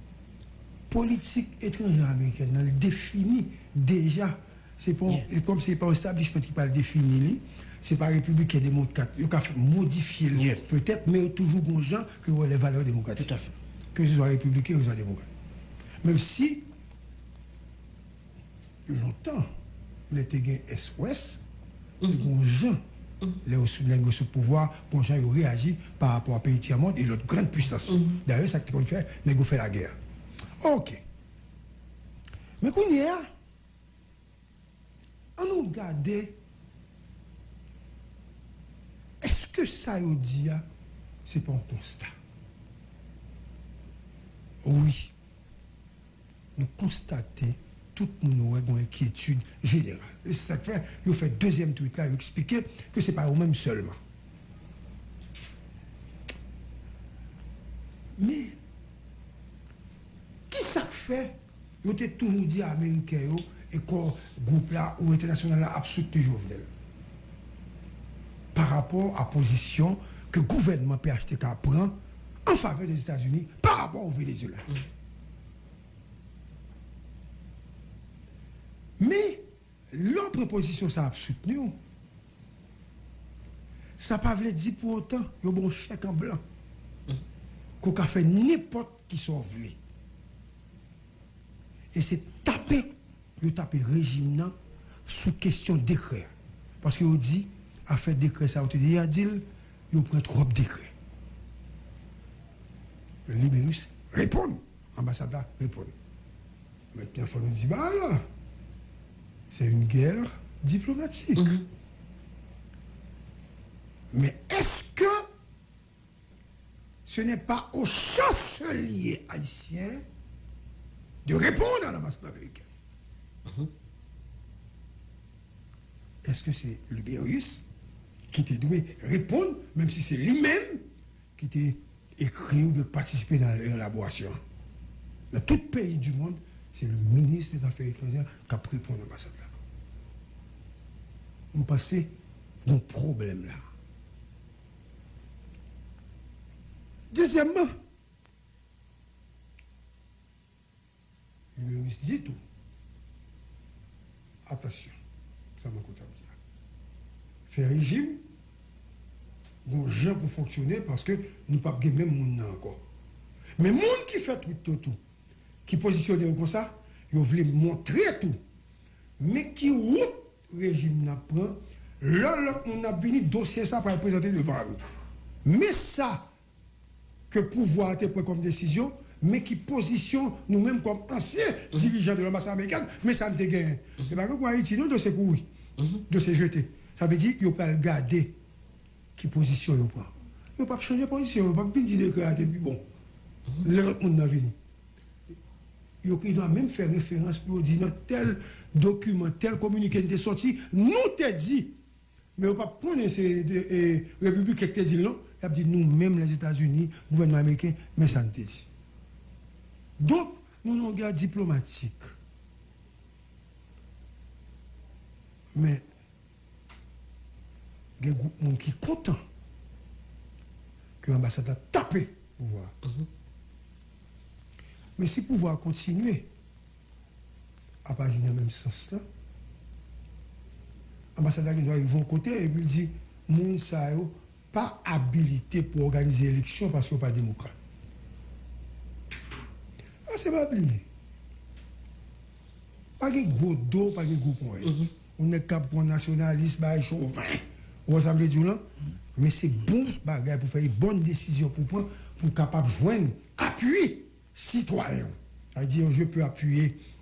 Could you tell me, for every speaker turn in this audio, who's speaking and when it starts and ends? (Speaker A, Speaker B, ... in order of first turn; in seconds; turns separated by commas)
Speaker A: 0.9-13.3, Speaker B: 10.3-10.6, Speaker B: 13.2-13.5, Speaker A: 13.9-15.3, Speaker A: 16.0-16.7, Speaker A: 18.9-19.5, Speaker A: 20.1-21.4, Speaker A: 22.1-22.8, Speaker A: 23.4-30.0, Speaker B: 27.9-28.2, Speaker A: 30.6-31.0, Speaker A: 32.6-33.3, Speaker A: 35.4-36.4, Speaker A: 39.2-40.7, Speaker A: 41.2-42.1, Speaker A: 44.6-45.1, Speaker A: 46.6-54.0, Speaker A: 58.2-58.6, Speaker A: 60.5-66.7, Speaker A: 68.5-74.7, Speaker A: 79.0-81.8, Speaker A: 84.0-86.4, Speaker A: 87.8-89.8, Speaker A: 91.9-94.5, Speaker A: 95.1-100.9, Speaker A: 103.3-105.9, Speaker A: 106.9-108.2, Speaker A: 109.5-111.6, Speaker B: 111.4-111.7, Speaker A: 114.1-115.3, Speaker A: 117.1-120.1, Speaker A: 121.2-122.7, Speaker B: 123.5-123.7, Speaker A: 126.2-127.7, Speaker A: 128.3-130.8, Speaker A: 131.4-134.4, Speaker A: 135.3-139.6, Speaker A: 141.5-142.1, Speaker A: 142.6-143.7, Speaker A: 147.1-147.8, Speaker A: 151.6-152.4, Speaker A: 154.4-155.0, Speaker A: 155.6-156.4, Speaker A: 157.5-158.2, Speaker A: 159.7-162.8, Speaker A: 163.6-165.0, Speaker A: 165.7-168.4, Speaker A: 169.2-174.8, Speaker A: 175.4-176.3, Speaker A: 177.3-185.5, Speaker B: 185.8-186.0, Speaker A: 186.1-188.4, Speaker A: 189.2-192.8, Speaker A: 193.6-194.6, Speaker A: 196.0-201.8, Speaker A: 202.4-208.7, Speaker A: 210.0-212.1, Speaker A: 215.5-215.8, Speaker A: 218.0-219.2, Speaker A: 221.0-222.7, Speaker A: 225.0-226.3, Speaker A: 227.8-229.0, Speaker A: 231.2-237.6, Speaker A: 240.1-240.8, Speaker A: 243.0-256.8, Speaker B: 244.6-244.9